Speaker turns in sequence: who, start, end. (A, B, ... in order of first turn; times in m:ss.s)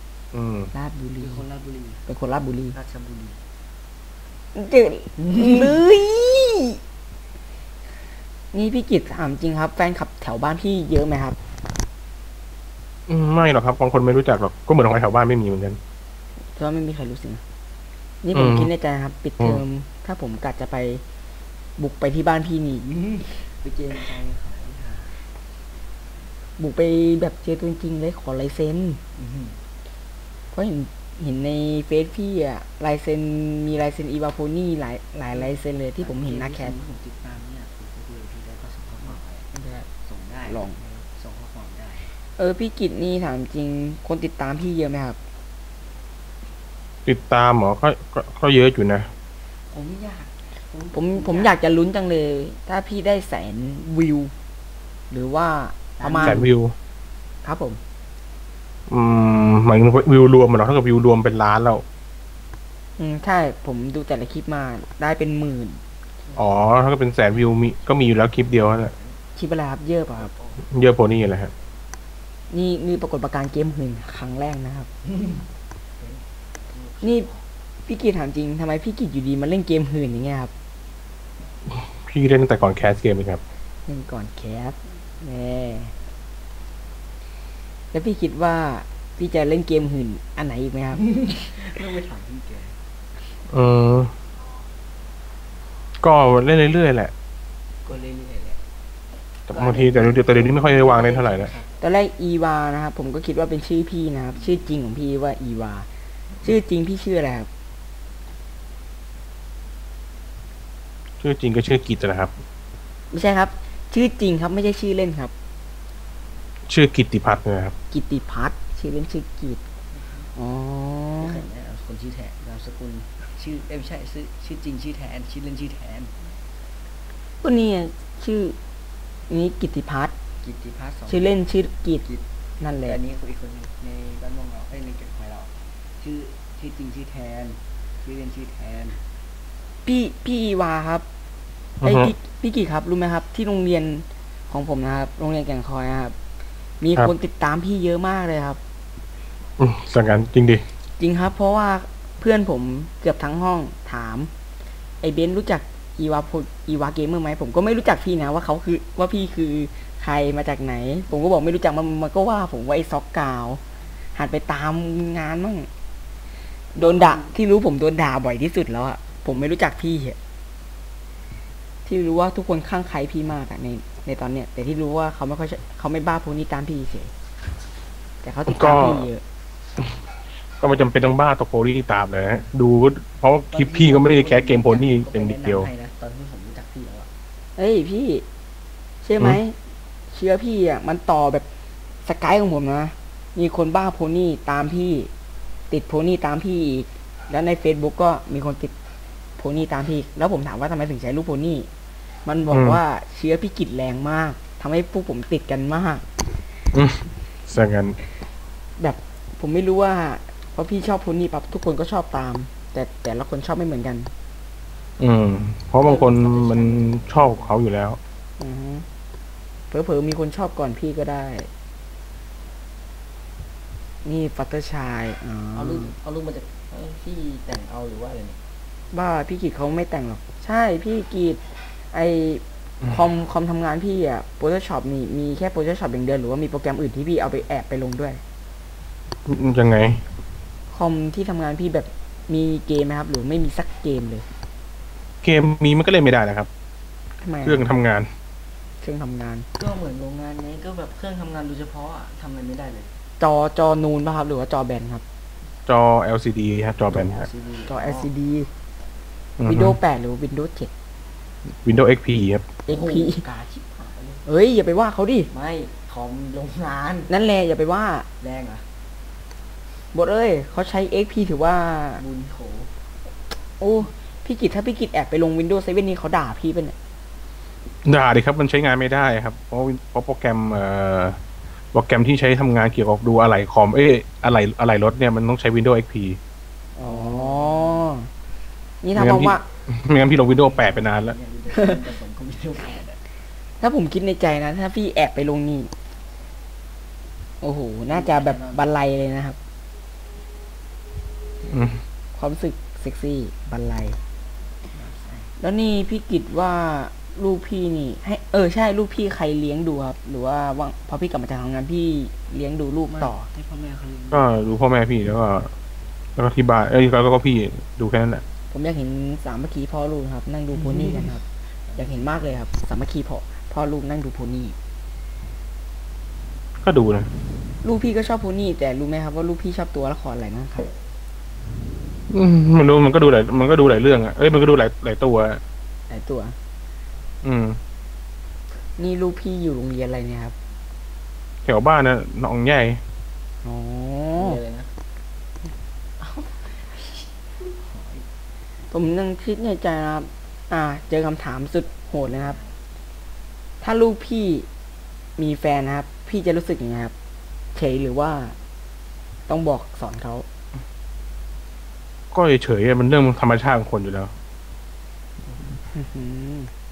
0:00.3-0:00.7 A
0:00.7-0:01.4 B
0:01.2-0:02.0 C
0:02.0-0:02.8 B
0:02.7-0:03.4 C
0:04.5-0:06.8 B
0:05.2-0:05.7 C
0:08.5-0:11.4 B
0:13.1-0:15.8 A
0:16.4-0:17.4 B
0:18.2-0:21.0 B
0:18.3-0:18.7 A
0:21.8-0:22.9 B
0:22.8-0:25.2 C
0:26.6-0:29.0 B
0:29.1-0:29.6 C
0:30.5-0:36.8 B
0:35.3-0:42.1 C
0:39.5-0:39.9 B
0:40.5-0:40.8 B
0:42.4-0:45.2 B
0:47.0-0:49.1 A
0:49.7-0:51.6 C
0:50.9-0:54.3 B
0:55.1-0:56.4 B
0:56.0-0:56.5 C
0:56.2-0:56.7 A
0:57.4-0:57.8 B
0:58.9-1:01.8 A
1:03.0-1:05.8 B
1:06.4-1:08.9 A
1:08.6-1:09.2 C
1:09.4-1:10.3 B
1:10.1-1:10.6 C
1:10.6-1:11.5 A
1:12.5-1:14.9 B
1:15.0-1:15.4 C
1:16.0-1:17.4 C
1:17.0-1:17.3 B
1:17.8-1:20.5 B
1:21.7-1:23.4 A
1:23.9-1:25.9 B
1:27.9-1:31.0 B
1:30.9-1:32.8 C
1:33.5-1:34.1 A
1:36.0-1:37.1 A
1:37.8-1:38.6 C
1:39.5-1:41.5 A
1:39.5-1:41.7 C
1:41.8-1:45.9 B
1:46.4-1:47.5 B
1:51.2-1:52.3 A
1:53.1-1:55.3 B
1:56.7-1:57.7 A
1:57.9-1:59.6 B
1:59.9-2:00.3 C
2:00.4-2:01.4 B
2:01.2-2:06.1 C
2:07.4-2:08.6 B
2:09.3-2:10.1 B
2:10.4-2:11.4 C
2:11.1-2:12.0 B
2:12.6-2:13.0 B
2:12.8-2:19.0 C
2:19.8-2:21.0 B
2:21.8-2:22.1 A
2:21.8-2:26.2 B
2:26.8-2:28.6 B
2:29.6-2:30.6 A
2:31.0-2:34.3 B
2:35.0-2:43.6 B
2:44.1-2:45.7 B
2:46.7-2:50.2 B
2:46.8-2:47.3 C
2:51.8-2:57.1 B
2:58.2-2:59.2 B
2:58.5-2:59.1 A
3:00.6-3:05.7 A
3:03.5-3:07.1 C
3:07.6-3:08.2 B
3:09.0-3:09.6 B
3:10.1-3:11.4 B
3:12.0-3:15.1 B
3:15.7-3:18.7 B
3:19.4-3:21.7 B
3:22.2-3:26.0 B
3:22.5-3:22.8 A
3:26.7-3:28.0 A
3:28.8-3:34.1 B
3:35.0-3:38.0 A
3:35.8-3:37.6 C
3:38.4-3:38.8 B
3:39.7-3:41.5 B
3:44.0-3:45.9 B
3:45.5-3:48.4 C
3:48.9-3:58.2 B
3:59.2-4:00.0 A
4:00.7-4:04.2 B
4:05.2-4:06.5 A
4:07.2-4:07.7 B
4:07.4-4:08.1 A
4:08.8-4:09.4 B
4:09.6-4:12.9 C
4:13.2-4:15.0 B
4:15.7-4:17.3 A
4:16.9-4:18.1 C
4:17.6-4:18.5 B
4:19.4-4:19.8 A
4:19.4-4:20.7 B
4:21.5-4:22.4 A
4:22.7-4:23.2 B
4:22.7-4:24.2 C
4:24.2-4:25.3 B
4:25.3-4:27.1 C
4:27.1-4:28.1 B
4:28.2-4:28.6 C
4:29.9-4:32.0 B
4:32.0-4:32.7 C
4:33.6-4:36.8 B
4:37.8-4:41.2 A
4:41.7-4:46.2 A
4:46.8-4:48.1 B
4:46.8-4:47.9 C
4:48.8-4:49.4 B
4:48.9-4:51.2 A
4:50.1-4:53.0 C
4:53.6-4:55.7 B
4:57.4-4:59.4 B
4:57.9-4:58.7 C
5:01.5-5:01.8 A
5:02.1-5:04.0 B
5:04.7-5:05.3 C
5:05.4-5:13.3 B
5:12.9-5:14.3 C
5:14.1-5:15.5 A
5:16.2-5:18.2 A
5:18.5-5:21.2 B
5:20.5-5:22.4 C
5:21.7-5:24.6 B
5:26.6-5:27.1 A
5:27.6-5:30.7 B
5:32.1-5:35.4 A
5:35.9-5:36.4 B
5:37.2-5:37.6 A
5:38.8-5:40.3 B
5:41.4-5:42.8 A
5:43.4-5:44.4 B
5:44.2-5:44.7 C
5:46.0-5:48.1 C
5:48.7-5:52.4 B
5:52.1-5:52.5 C
5:53.6-5:54.5 B
5:55.2-5:56.9 B
5:57.5-5:58.4 B
5:59.3-6:00.2 B
6:02.1-6:04.1 A
6:05.7-6:06.5 B